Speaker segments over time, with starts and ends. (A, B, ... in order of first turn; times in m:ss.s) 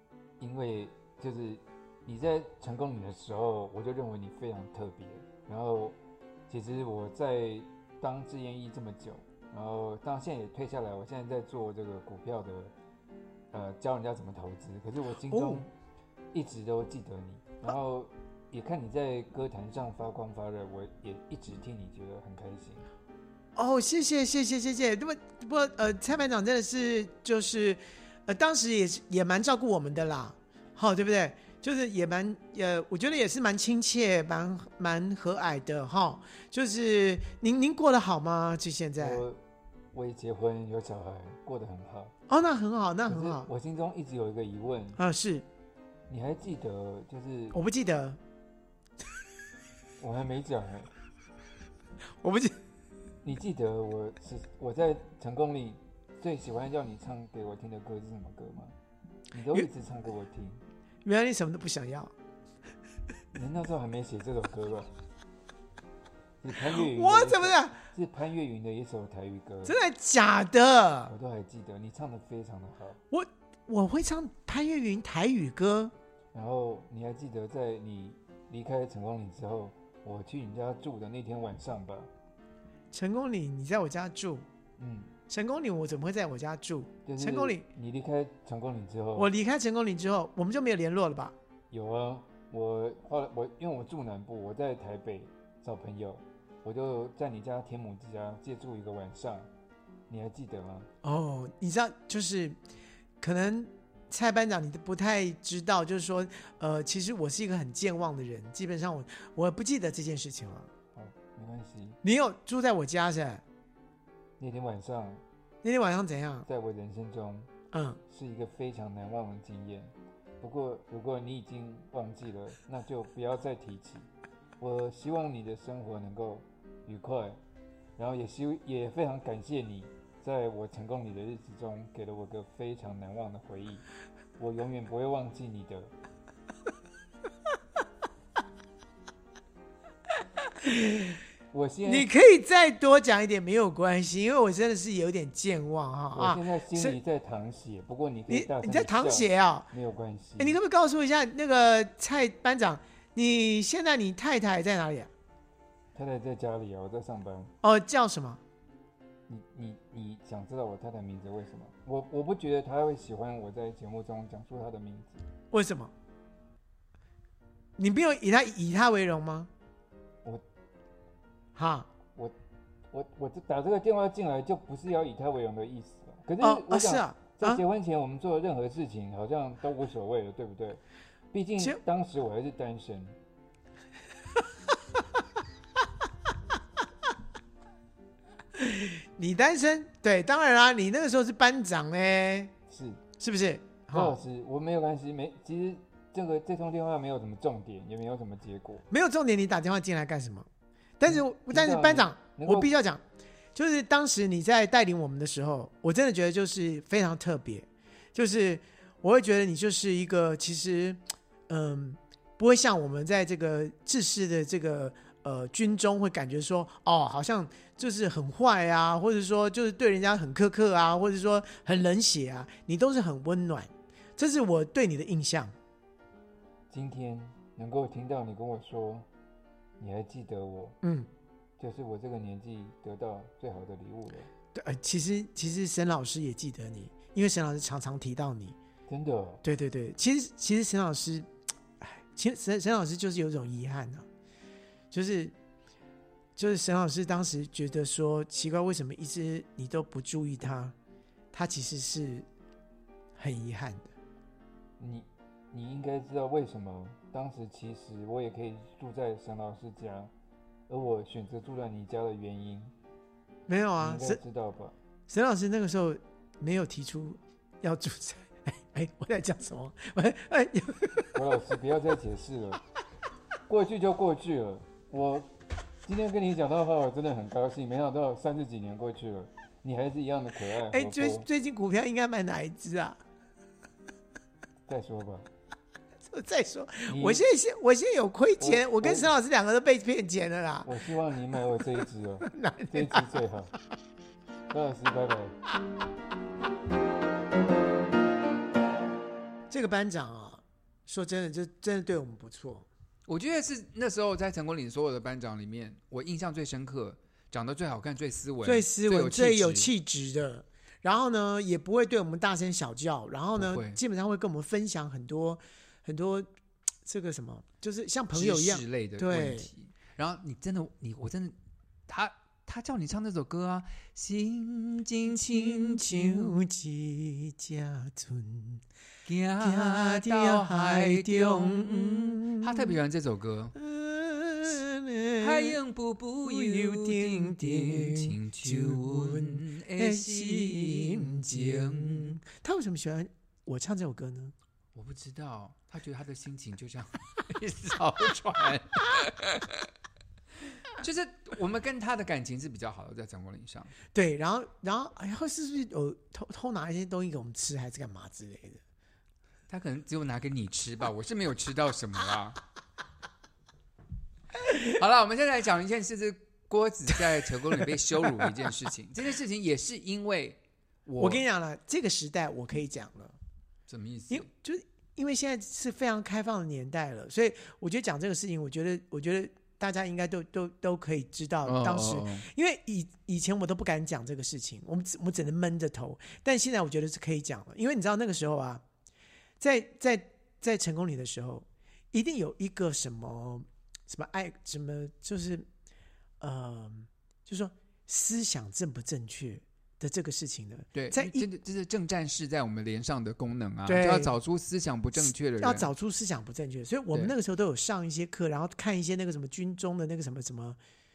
0:00.4-0:06.0 A
0:06.5-0:12.7 A
0:13.5-0:15.7 A
0:15.3-0:15.7 B
0:16.3-0:22.9 A
0:23.6-0:39.2 B
0:39.0-0:39.4 A
0:39.9-0:42.1 A
0:42.3-0:43.5 B
0:43.1-0:45.0 A
0:45.0-0:45.4 B
0:46.1-0:47.6 A
0:47.5-0:48.2 B
0:50.0-0:50.9 A
0:52.2-0:52.6 B
0:53.2-0:58.7 A
0:59.3-1:00.6 A
1:01.0-1:02.1 B
1:03.4-1:04.9 A
1:06.4-1:09.8 A
1:06.7-1:07.8 B
1:09.7-1:11.1 B
1:11.1-1:13.0 A
1:13.1-1:15.9 B
1:16.3-1:22.1 A
1:22.9-1:24.4 B
1:24.8-1:25.1 A
1:25.3-1:27.6 B
1:27.0-1:29.3 A
1:29.2-1:31.4 B
1:31.7-1:39.5 A
1:40.1-1:40.9 A
1:41.0-1:42.6 B
1:43.2-1:50.7 B
1:51.0-1:52.0 A
1:52.0-1:53.4 B
1:54.4-1:55.2 A
1:55.6-1:56.5 B
1:56.5-1:57.5 A
1:57.7-1:58.0 B
1:58.1-2:04.1 A
2:04.6-2:07.4 A
2:08.0-2:13.8 A
2:14.4-2:15.9 A
2:20.6-2:21.2 B
2:21.5-2:22.1 A
2:21.8-2:27.0 B
2:26.1-2:30.6 A
2:28.3-2:29.7 B
2:30.4-2:35.1 B
2:35.9-2:37.5 A
2:37.6-2:38.4 B
2:39.3-2:45.2 A
2:45.5-2:45.9 B
2:47.8-2:49.5 B
2:51.6-2:51.9 B
2:52.9-3:00.8 A
2:56.4-2:57.6 B
3:01.3-3:03.2 A
3:08.6-3:12.5 B
3:12.7-3:13.0 A
3:13.2-3:14.2 B
3:13.9-3:18.8 A
3:18.9-3:20.5 B
3:21.0-3:23.0 B
3:21.1-3:22.7 A
3:23.6-3:45.5 B
3:46.7-3:49.1 A
3:49.8-3:50.8 A
3:50.8-3:51.1 B
3:51.6-3:54.3 A
3:54.5-3:58.6 B
3:58.9-3:59.4 A
3:59.4-4:01.3 B
4:01.8-4:04.1 B
4:04.9-4:05.4 B
4:06.4-4:10.7 B
4:11.3-4:12.3 B
4:13.2-4:13.9 B
4:14.8-4:20.1 A
4:20.7-4:22.7 A
4:23.5-4:24.2 B
4:23.8-4:24.7 A
4:25.1-4:31.1 B
4:31.1-4:32.6 A
4:33.5-4:35.3 A
4:35.8-4:41.3 A
4:40.7-4:43.0 B
4:44.7-4:45.3 A
4:46.1-4:50.7 B
4:46.9-4:47.2 A
4:48.4-4:49.1 A
4:50.6-4:53.5 A
4:52.3-4:53.2 B
4:54.5-4:55.4 A
4:59.5-5:02.7 B
5:03.1-5:09.7 C
5:08.4-5:16.3 B
5:13.4-5:13.8 C
5:16.8-5:19.5 B
5:18.1-5:21.4 C
5:21.9-5:26.3 C
5:25.3-5:28.6 B
5:29.0-5:33.6 C
5:29.4-5:32.7 B
5:33.6-5:35.6 B
5:35.2-5:42.2 C
5:36.2-5:44.3 B
5:44.8-5:49.7 C
5:50.7-5:53.7 C
5:53.9-5:58.6 B
5:59.5-6:02.4 C
6:04.4-6:11.2 C
6:11.0-6:13.2 B
6:13.7-6:14.3 C
6:14.1-6:28.6 B
6:21.4-6:22.3 C
6:29.4-6:35.5 B
6:36.2-6:41.3 B
6:40.8-6:45.7 C
6:43.7-6:44.2 B
6:45.0-6:50.6 B